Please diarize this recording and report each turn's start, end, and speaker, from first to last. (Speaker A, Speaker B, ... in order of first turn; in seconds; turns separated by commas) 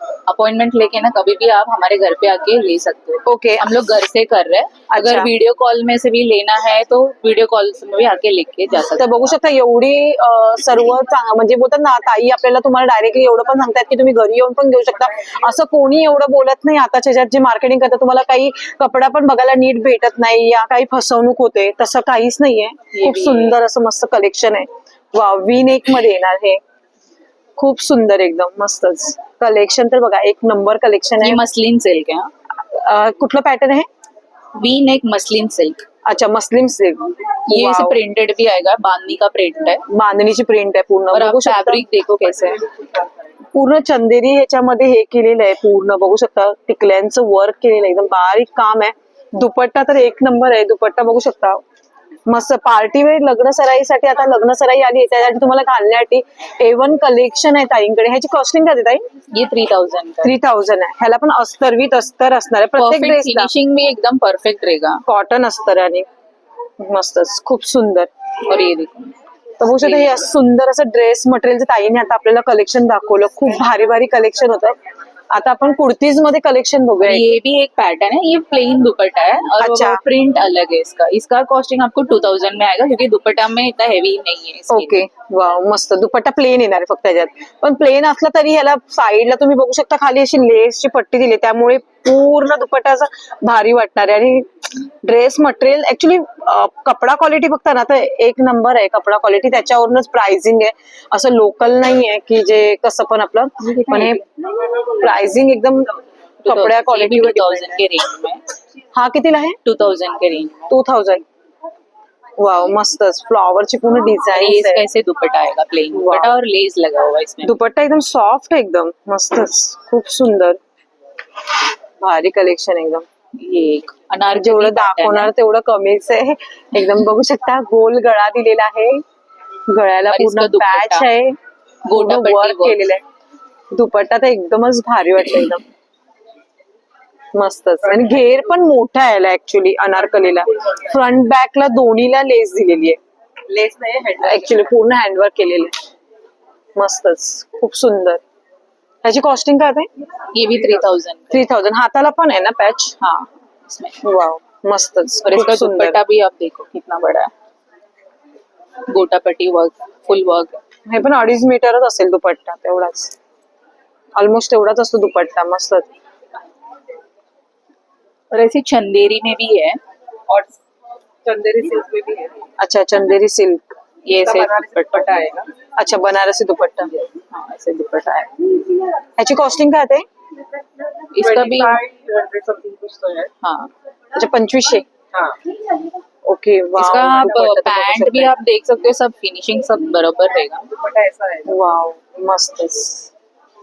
Speaker A: 0.3-9.3, Speaker B: 3.2-3.7, Speaker B: 4.9-5.3, Speaker B: 8.9-26.6, Speaker A: 22.9-23.6, Speaker B: 27.6-31.4, Speaker A: 31.2-32.3, Speaker B: 32.5-33.9, Speaker A: 34.5-35.8, Speaker B: 36.1-38.0, Speaker A: 37.5-39.8, Speaker B: 39.9-41.8, Speaker A: 41.1-42.6, Speaker B: 43.5-51.6, Speaker B: 52.3-59.0, Speaker A: 59.3-60.3, Speaker B: 60.2-63.5, Speaker A: 62.8-65.0, Speaker B: 65.1-66.1, Speaker B: 66.8-68.1, Speaker A: 68.4-69.2, Speaker B: 69.6-74.8, Speaker A: 69.8-70.2, Speaker B: 75.3-77.2, Speaker A: 77.0-85.0, Speaker B: 79.6-80.0, Speaker B: 84.7-105.9, Speaker A: 103.6-104.2, Speaker A: 106.4-108.4, Speaker B: 106.5-107.8, Speaker B: 108.9-109.6, Speaker A: 109.6-110.7, Speaker B: 110.7-111.2, Speaker B: 112.4-114.8, Speaker A: 114.3-117.5, Speaker B: 115.9-116.3, Speaker B: 117.4-120.6, Speaker B: 122.0-123.0, Speaker A: 123.4-125.3, Speaker B: 124.3-129.0, Speaker B: 129.7-131.4, Speaker A: 130.1-131.1, Speaker A: 131.8-132.8, Speaker B: 131.9-133.0, Speaker B: 133.7-135.7, Speaker B: 137.3-143.0, Speaker A: 143.5-143.9, Speaker C: 143.6-144.1, Speaker B: 144.2-145.7, Speaker B: 146.8-148.2, Speaker B: 149.0-149.9, Speaker A: 150.3-151.4, Speaker B: 151.3-152.9, Speaker A: 153.0-154.0, Speaker B: 154.0-156.0, Speaker A: 155.2-157.3, Speaker A: 158.9-160.6, Speaker B: 160.9-163.1, Speaker B: 164.2-165.9, Speaker A: 168.3-169.8, Speaker C: 171.2-172.5, Speaker B: 172.6-173.6, Speaker A: 174.1-175.3, Speaker C: 174.2-175.5, Speaker B: 175.8-176.9, Speaker A: 177.1-178.7, Speaker B: 179.2-180.1, Speaker A: 181.1-181.8, Speaker C: 181.2-183.3, Speaker A: 183.4-183.7, Speaker B: 184.1-184.9, Speaker B: 186.2-188.3, Speaker A: 186.8-190.8, Speaker C: 190.8-191.5, Speaker B: 191.4-193.1